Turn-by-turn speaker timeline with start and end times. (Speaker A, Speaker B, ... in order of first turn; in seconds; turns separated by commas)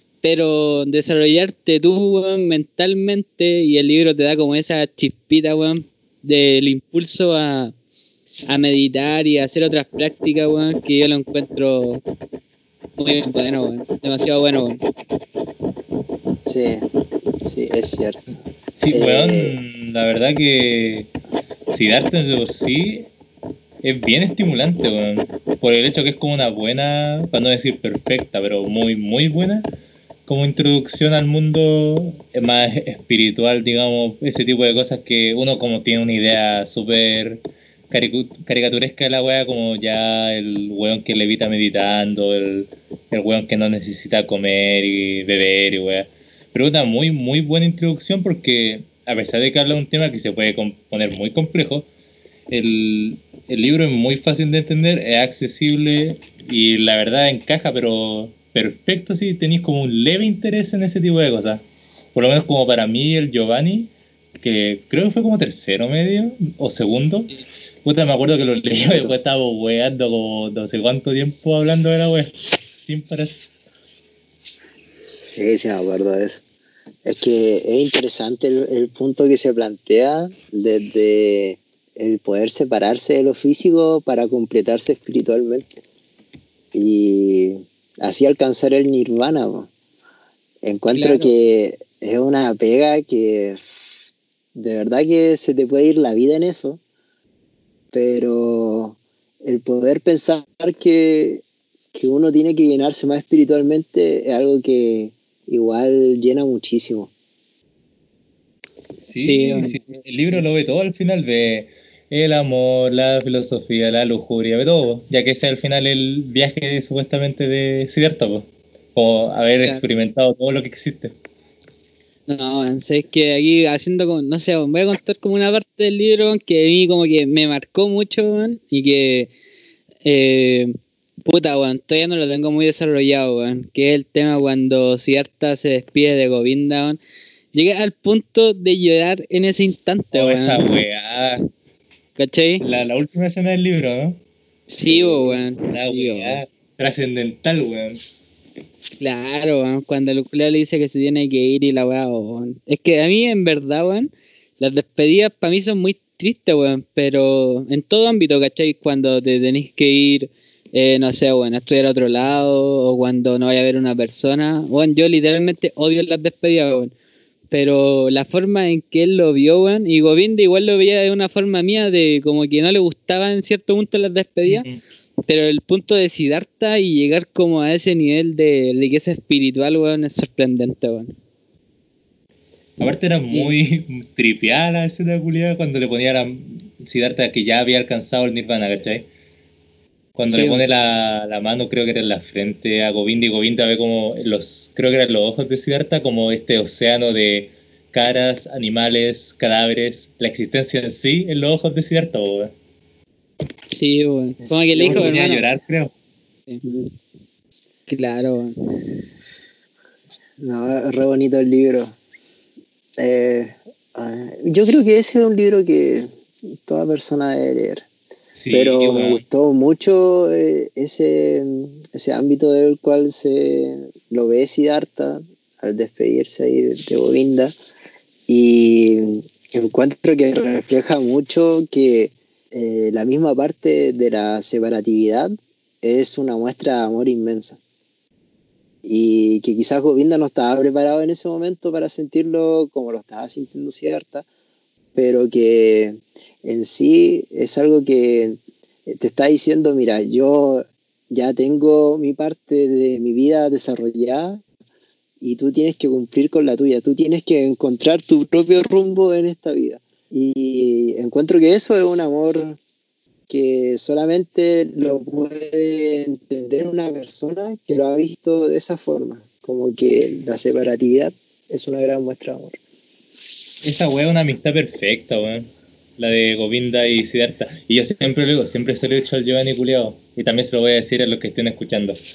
Speaker A: 0.2-7.7, Speaker A: 8.5-12.0, Speaker A: 13.0-14.8, Speaker B: 16.4-16.8, Speaker B: 17.4-18.2, Speaker C: 18.8-21.1, Speaker B: 18.9-19.6, Speaker C: 21.7-23.1, Speaker C: 23.8-29.7, Speaker C: 30.3-51.9, Speaker C: 52.5-61.6, Speaker C: 62.1-63.9, Speaker C: 64.4-73.3, Speaker B: 68.8-69.1, Speaker B: 75.2-76.4, Speaker B: 77.0-85.8, Speaker B: 86.7-89.7, Speaker B: 90.6-93.7, Speaker A: 90.9-91.3, Speaker B: 94.5-96.8, Speaker B: 97.9-101.4, Speaker B: 101.9-107.1, Speaker C: 109.1-121.1, Speaker A: 109.1-109.8, Speaker A: 122.3-129.3, Speaker A: 130.0-130.7, Speaker A: 131.2-137.0, Speaker A: 137.5-140.7, Speaker C: 140.1-141.5, Speaker A: 142.2-142.6, Speaker C: 142.6-144.2, Speaker A: 144.7-146.4, Speaker C: 144.9-148.0, Speaker A: 149.0-166.9, Speaker A: 167.5-174.6, Speaker C: 174.4-174.8, Speaker A: 175.3-181.1, Speaker C: 182.8-189.1, Speaker C: 190.2-202.5, Speaker A: 190.3-190.6, Speaker A: 203.7-205.4, Speaker B: 204.4-205.1, Speaker C: 204.8-205.9, Speaker A: 207.9-208.6, Speaker B: 210.4-211.9, Speaker B: 213.0-217.8, Speaker C: 218.3-219.2, Speaker B: 218.5-227.5, Speaker B: 228.3-237.6, Speaker B: 238.8-244.3, Speaker B: 244.9-254.4, Speaker B: 255.2-262.6, Speaker B: 263.3-272.6, Speaker C: 273.6-282.0